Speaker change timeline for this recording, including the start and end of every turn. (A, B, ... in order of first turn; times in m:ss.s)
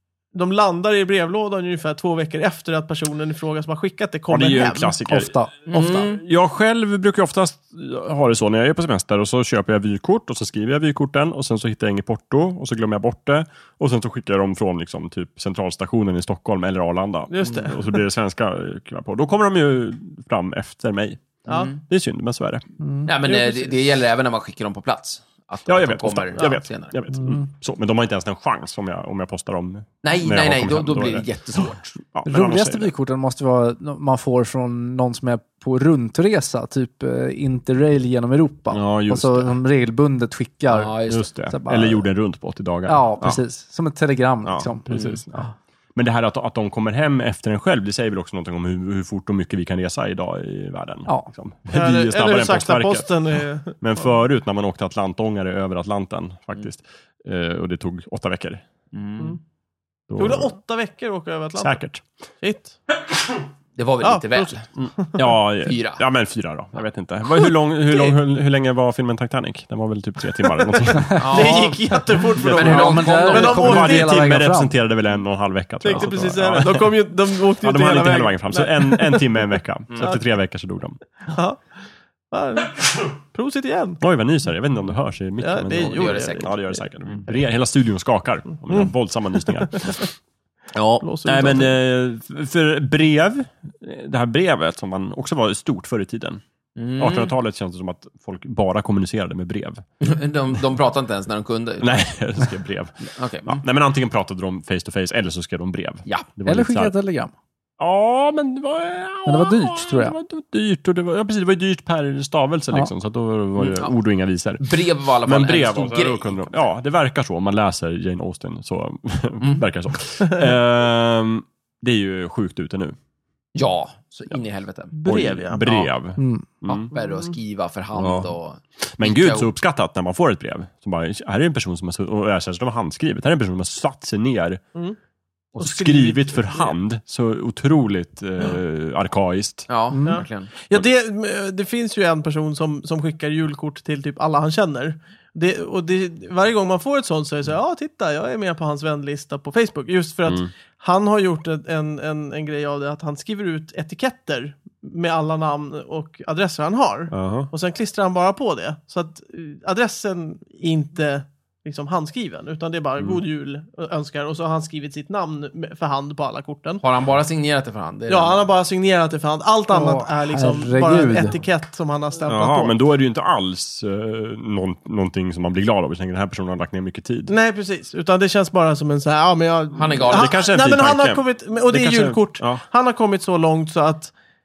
0:00.3-0:05.0 A
0:04.3-0:22.6 B
0:05.1-0:05.7 C
0:05.7-0:06.2 D
0:17.3-0:17.9 A
0:21.5-0:21.8 D
0:22.8-0:23.1 C
0:23.1-0:27.0 D
0:23.2-0:23.7 A
0:25.7-0:31.3 B
0:30.0-0:32.0 D
0:32.1-0:32.9 B
0:32.3-0:42.0 C
0:38.7-0:39.6 B
0:40.7-0:41.3 D
0:41.1-0:43.4 B
0:42.9-0:44.9 C
0:44.4-0:53.1 B
0:44.9-0:45.2 D
0:51.7-0:54.0 A
0:53.8-0:58.6 B
0:58.9-0:59.4 D
1:00.1-1:00.5 B
1:00.2-1:01.8 A
1:01.6-1:02.0 B
1:02.4-1:02.8 A
1:03.8-1:04.7 D
1:04.0-1:05.2 A
1:04.8-1:11.6 B
1:05.6-1:06.0 D
1:11.2-1:11.8 D
1:11.3-1:14.1 A
1:12.3-1:17.0 B
1:12.4-1:14.0 D
1:12.6-1:14.7 C
1:15.8-1:19.5 A
1:17.5-1:21.0 B
1:21.3-1:21.7 A
1:22.3-1:24.0 A
1:24.0-1:30.0 B
1:25.4-1:26.6 A
1:25.7-1:26.5 D
1:28.7-1:30.1 A
1:30.8-1:36.4 B
1:31.0-1:31.7 A
1:36.8-1:37.3 D
1:37.0-1:39.8 B
1:40.0-1:41.9 D
1:41.8-1:46.9 B
1:43.2-1:43.6 D
1:46.5-1:47.3 C
1:47.8-1:54.6 B
1:49.3-1:50.2 C
1:53.6-1:54.0 D
1:54.6-1:56.6 D
1:55.2-2:03.0 B
2:03.5-2:04.9 D
2:04.9-2:05.9 A
2:05.0-2:06.9 B
2:06.2-2:06.5 C
2:06.9-2:09.5 D
2:06.9-2:07.3 A
2:08.0-2:08.3 B
2:08.8-2:14.6 B
2:15.6-2:19.7 B
2:15.6-2:16.7 A
2:19.7-2:20.5 D
2:19.9-2:20.2 C
2:20.1-2:46.8 A
2:37.1-2:37.5 B
2:46.8-2:48.5 D
2:48.1-2:52.7 A
2:49.7-2:51.3 C
2:52.3-2:57.3 B
2:57.3-3:04.1 A
2:59.8-3:00.4 D
3:00.1-3:02.6 B